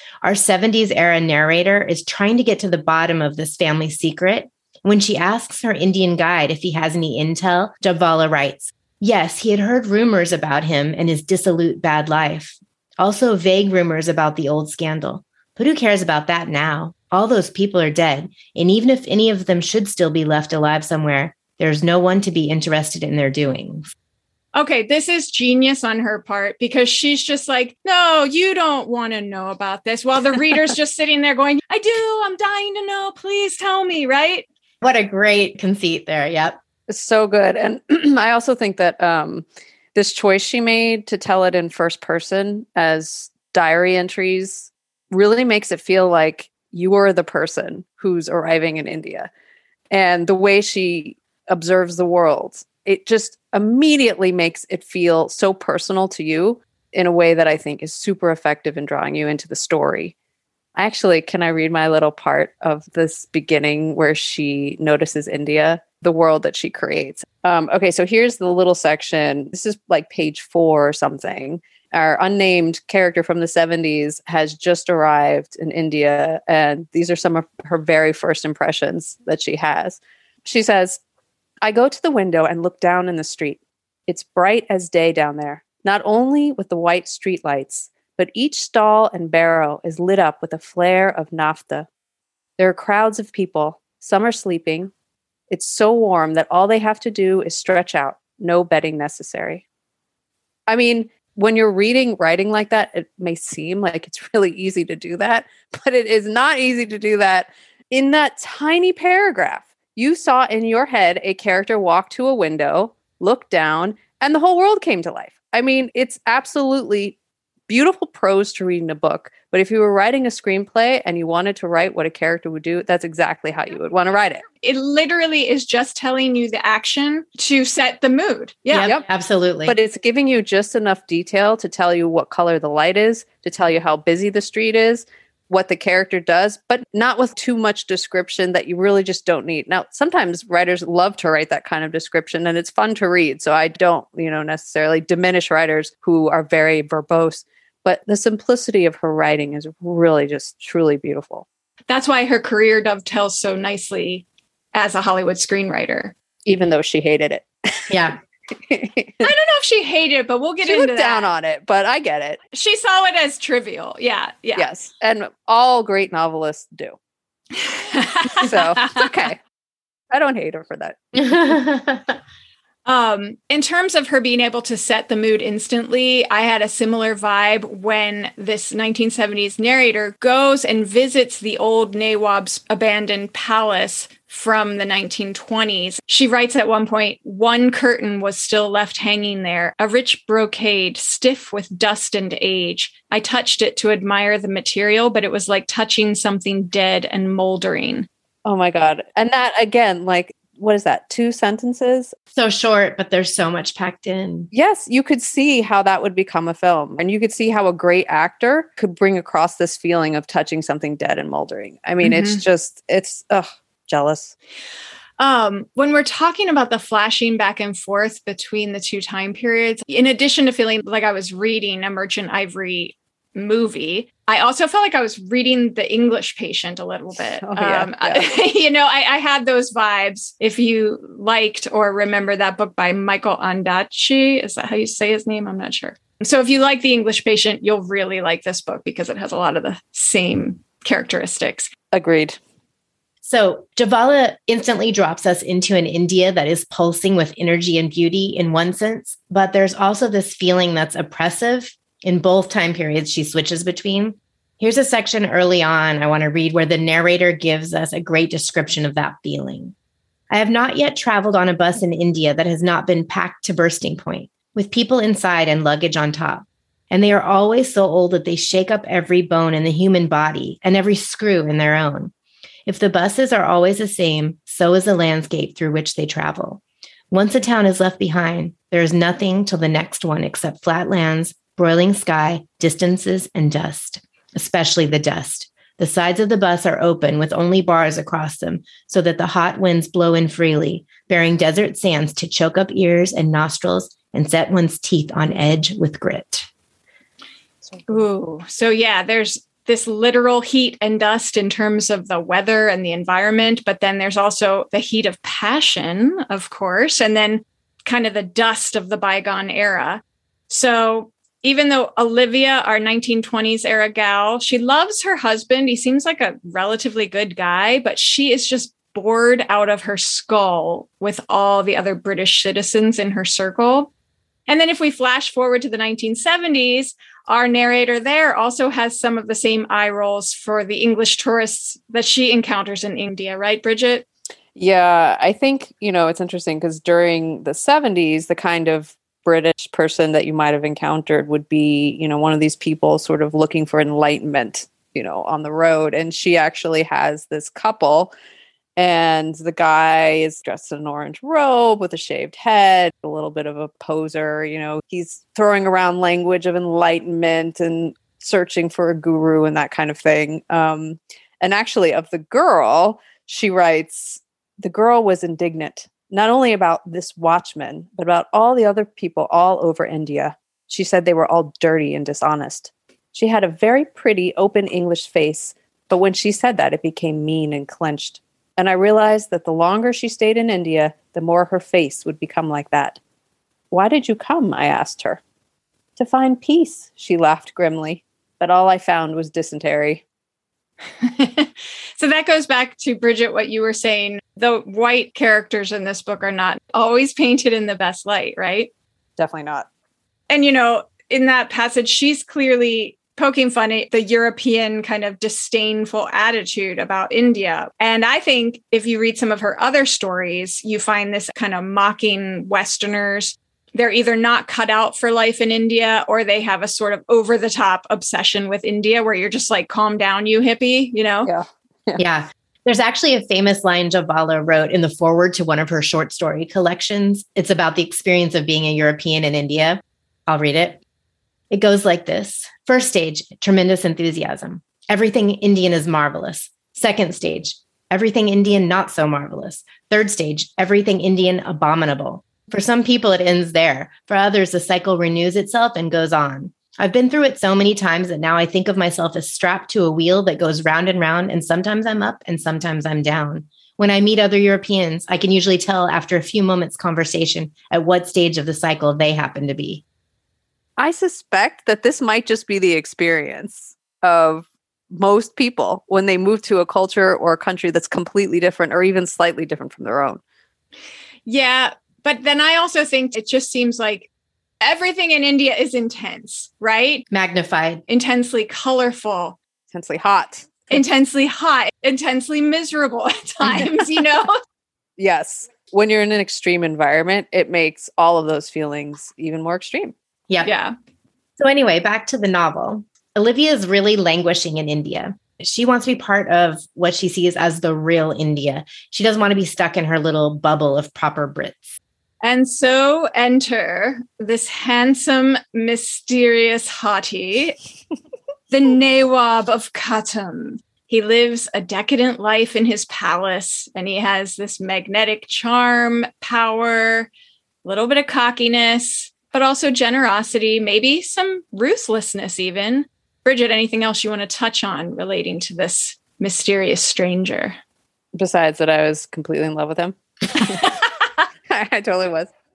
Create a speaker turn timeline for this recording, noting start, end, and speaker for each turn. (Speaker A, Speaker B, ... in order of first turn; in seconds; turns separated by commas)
Speaker A: 0.2-23.9, Speaker B: 24.5-34.5, Speaker A: 34.8-36.6, Speaker C: 36.9-49.3, Speaker C: 49.9-60.1, Speaker C: 60.8-81.0, Speaker C: 81.6-91.9, Speaker C: 92.6-94.9, Speaker C: 95.5-99.6, Speaker C: 100.7-117.2, Speaker C: 117.7-124.4, Speaker B: 124.6-128.9, Speaker A: 128.7-129.7, Speaker C: 129.7-151.4, Speaker B: 151.9-156.1, Speaker C: 156.4-157.9, Speaker A: 157.9-158.2, Speaker C: 158.6-159.3, Speaker B: 159.2-161.3, Speaker C: 160.6-162.4, Speaker B: 162.5-164.7, Speaker C: 164.6-166.9, Speaker B: 167.5-169.1, Speaker C: 168.3-169.4, Speaker C: 170.1-171.5, Speaker A: 171.1-172.1, Speaker B: 172.8-198.1, Speaker C: 198.4-202.1, Speaker A: 202.3-204.5, Speaker C: 204.5-214.3, Speaker B: 212.0-212.4, Speaker B: 215.2-241.7, Speaker C: 227.4-228.3, Speaker C: 241.9-242.4, Speaker A: 243.2-259.7, Speaker A: 260.3-272.1, Speaker A: 272.7-296.5, Speaker B: 297.9-323.9, Speaker B: 324.5-334.0, Speaker C: 334.6-348.1, Speaker C: 348.8-383.0, Speaker C: 383.7-385.2, Speaker C: 386.0-390.0, Speaker B: 391.0-398.7, Speaker C: 399.2-399.7, Speaker B: 400.3-421.3, Speaker C: 421.2-422.0, Speaker A: 422.0-430.8, Speaker A: 431.5-459.8, Speaker C: 460.8-470.2, Speaker B: 471.2-474.1, Speaker B: 474.6-477.1, Speaker A: 477.1-477.8, Speaker B: 477.9-479.4, Speaker C: 479.7-480.7, Speaker B: 480.7-484.3, Speaker C: 485.0-489.9, Speaker B: 490.4-490.7, Speaker A: 491.4-501.8, Speaker B: 502.2-507.6, Speaker B: 508.5-517.1, Speaker B: 517.6-527.6, Speaker C: 528.1-530.7, Speaker B: 530.3-531.2, Speaker C: 531.5-532.3